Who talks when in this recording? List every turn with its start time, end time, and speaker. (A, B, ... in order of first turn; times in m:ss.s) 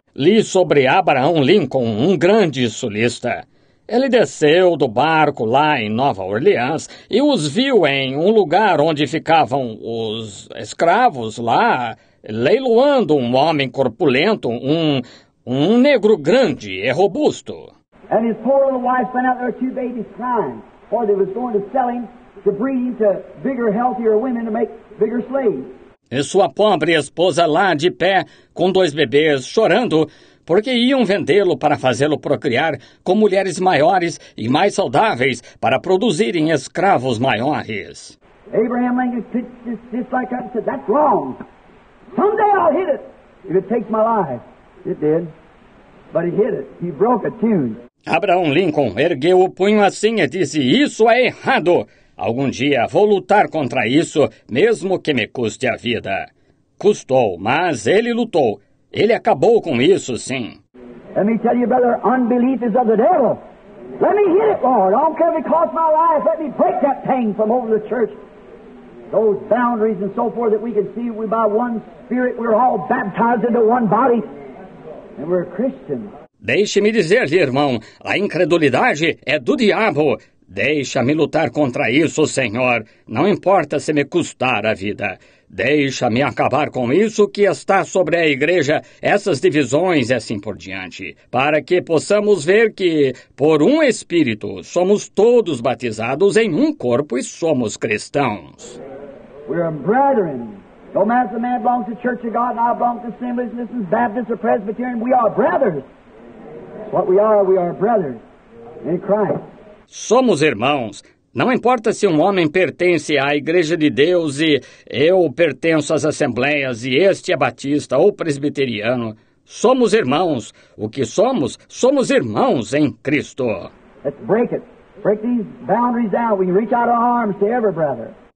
0:00.2-0:17.7 A
0:18.1-0:25.7 B
0:26.1-0:38.2 A
0:38.5-0:41.4 B
0:42.1-0:45.3 B
0:46.1-0:47.8 B
0:48.1-0:56.3 A
0:56.8-1:00.6 A
1:01.2-1:03.4 B
1:04.0-1:08.1 B
1:09.1-1:14.3 B
1:15.2-1:16.1 B
1:16.4-1:38.8 A
1:39.5-1:45.8 B
1:46.9-1:48.2 B
1:48.8-1:49.4 B
1:49.9-2:03.7 A
2:04.0-2:08.1 B